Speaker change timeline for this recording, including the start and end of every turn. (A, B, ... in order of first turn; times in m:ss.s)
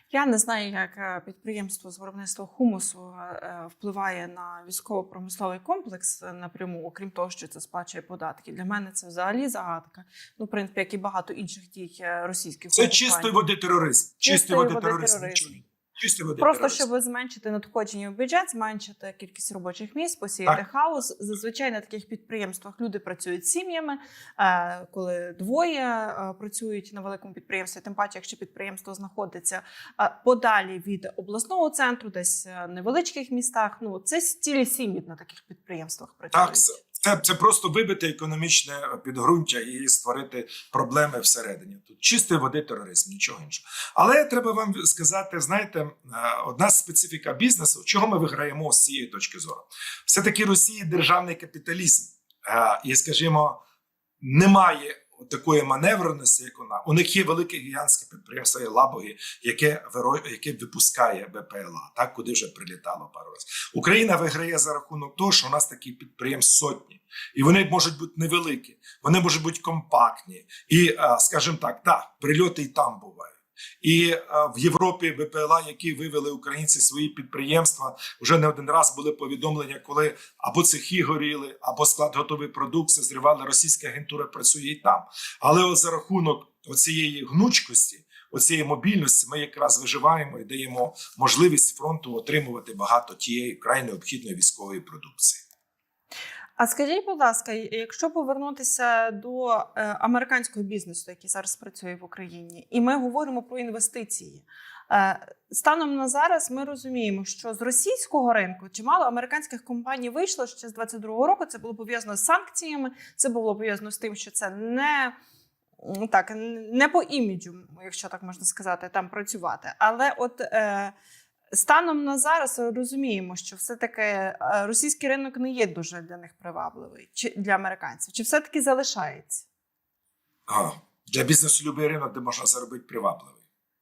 0:00.1-0:13.4 A
0:12.7-0:16.8 B
0:14.2-0:15.6 A
0:16.4-0:36.6 A
0:36.3-0:53.6 B
0:54.2-1:35.4 B
1:36.6-1:55.2 A
1:55.8-2:00.9 A
2:01.5-2:09.4 A
2:10.5-2:13.4 B